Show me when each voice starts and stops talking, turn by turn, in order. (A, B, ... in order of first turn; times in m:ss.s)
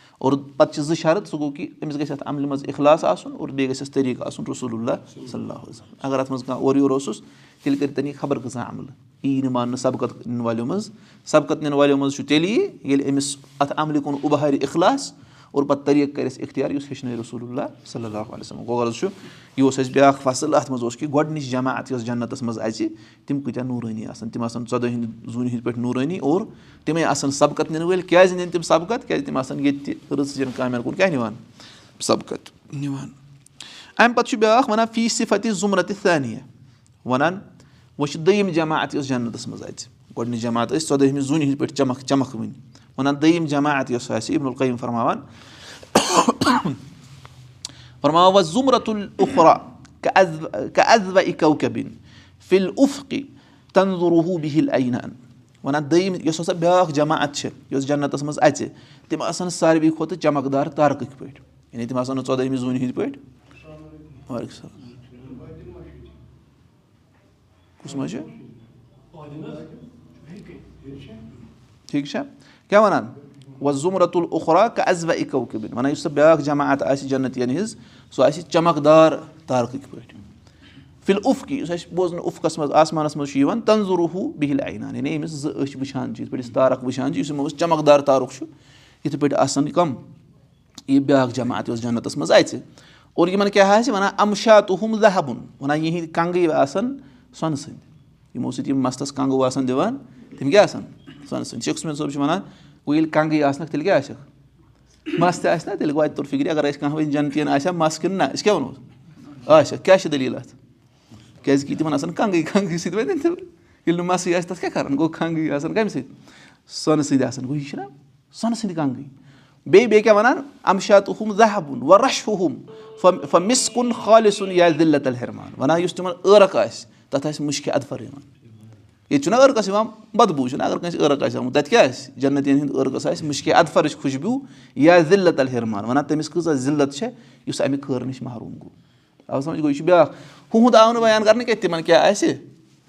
0:00.2-0:31.4 A
0:32.0-0:33.2 A
0:34.0-0:36.4 A
0:37.0-0:37.4 A
0:38.0-0:45.2 A
0:45.9-0:46.8 A
0:48.0-1:03.2 A
1:04.3-1:05.0 A
1:07.8-1:08.3 A
1:11.9-1:20.2 A
1:21.0-1:28.5 A
1:29.0-1:30.0 A
1:30.9-1:32.6 A
1:33.2-1:44.2 A
1:45.1-1:48.8 A
1:49.4-1:50.6 A
1:51.4-1:56.1 A
1:56.7-1:59.1 A
1:59.7-2:08.3 A
2:09.1-2:18.7 A
2:19.3-2:22.4 A